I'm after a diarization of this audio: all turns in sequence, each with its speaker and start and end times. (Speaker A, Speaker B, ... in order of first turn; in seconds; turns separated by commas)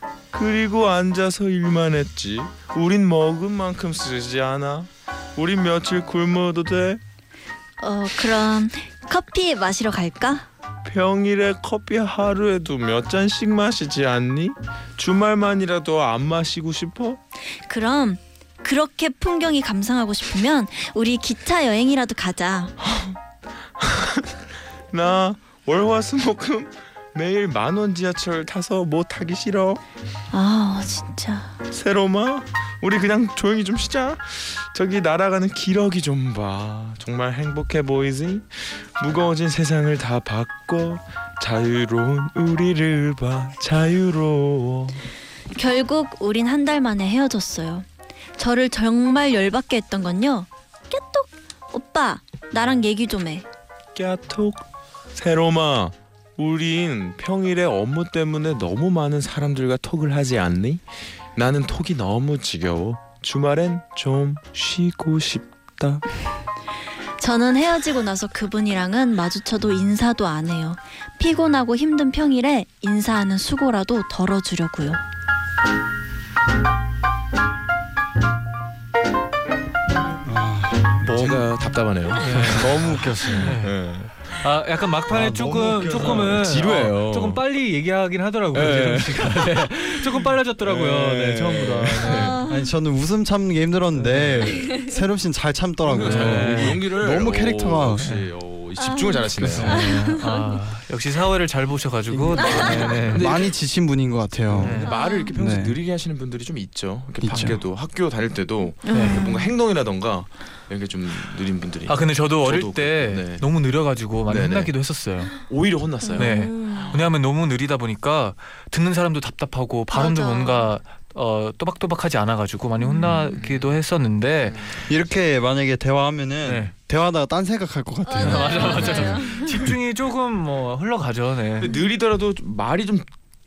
Speaker A: 0.3-7.0, Speaker B: 7.8-10.5, Speaker A: 10.8-17.2, Speaker B: 17.6-22.7, Speaker A: 22.8-23.1, Speaker A: 23.8-24.3, Speaker A: 24.9-29.8, Speaker B: 30.3-31.6, Speaker A: 31.7-45.0, Speaker B: 45.5-47.9, Speaker B: 48.4-53.5, Speaker A: 53.9-54.6, Speaker A: 55.1-60.8, Speaker A: 61.4-66.0, Speaker B: 67.2-75.0, Speaker C: 80.2-81.5, Speaker A: 81.0-84.4, Speaker D: 82.2-83.8, Speaker C: 82.3-83.6, Speaker D: 84.4-92.4, Speaker C: 85.1-86.5, Speaker A: 85.9-87.4, Speaker A: 88.5-92.4, Speaker B: 92.0-92.7, Speaker C: 92.5-98.1, Speaker D: 94.0-94.5, Speaker B: 94.5-94.9, Speaker A: 95.8-99.8, Speaker D: 95.9-96.8, Speaker D: 98.0-98.3, Speaker B: 98.8-100.6, Speaker C: 99.4-99.9, Speaker D: 99.6-103.3, Speaker C: 102.1-105.8, Speaker B: 102.4-103.0, Speaker A: 103.0-103.5, Speaker A: 104.5-113.4, Speaker D: 104.5-104.9, Speaker B: 104.8-105.3, Speaker C: 107.2-107.6, Speaker D: 107.3-107.6, Speaker B: 108.8-109.5, Speaker D: 108.9-109.3, Speaker D: 111.9-115.4, Speaker A: 114.3-114.7, Speaker A: 115.3-117.0, Speaker B: 116.0-117.0, Speaker D: 116.2-124.6, Speaker B: 119.9-120.7, Speaker B: 122.8-123.2, Speaker A: 123.0-123.7, Speaker A: 124.5-124.8, Speaker C: 124.8-129.7, Speaker D: 126.4-126.7, Speaker B: 128.1-129.7, Speaker D: 128.2-131.7, Speaker A: 131.6-133.1